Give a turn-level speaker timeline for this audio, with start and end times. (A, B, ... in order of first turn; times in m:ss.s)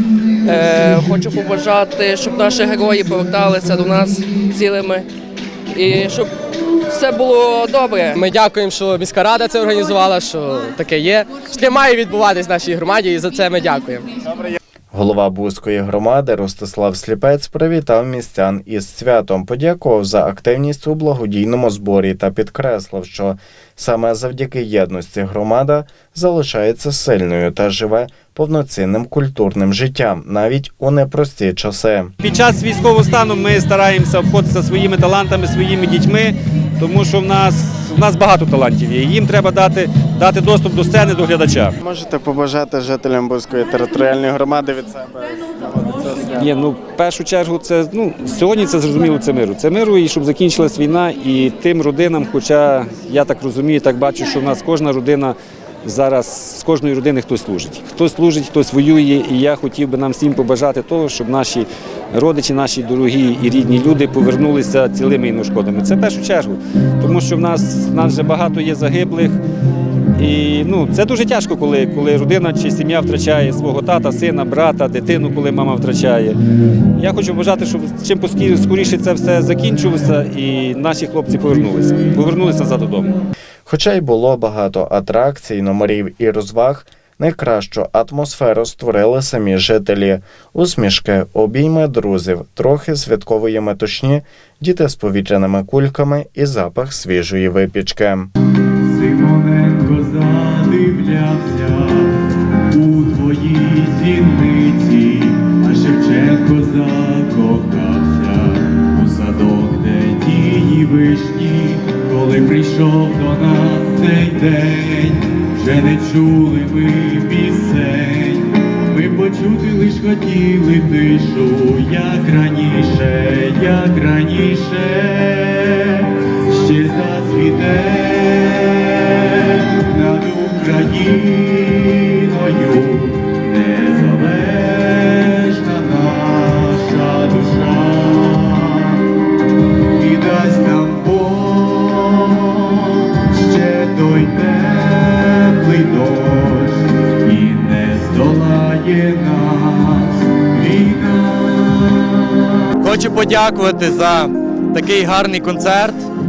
0:00.4-0:05.1 A
0:05.7-0:06.3 A
0:06.9-0:08.2 A
0:08.2-0:14.1 B
0:14.9-0:32.1 C
0:32.2-0:41.7 D
0:41.8-0:46.5 C
0:46.4-1:09.4 D
1:10.2-1:16.4 D
1:17.0-1:23.1 D
1:23.6-1:38.3 C
1:39.0-1:41.9 E
1:42.7-1:48.5 E
1:49.0-1:51.3 E
1:52.5-1:54.7 E
1:56.6-1:58.0 E
1:59.2-2:00.4 E
2:03.5-2:04.9 E
2:13.6-2:14.1 E
2:15.8-2:16.1 E
2:17.4-2:17.9 E
2:20.0-2:21.4 E
2:23.5-2:24.6 E
2:25.8-2:26.2 E
2:27.3-2:27.8 E
2:28.4-2:29.0 E
2:32.8-2:36.0 F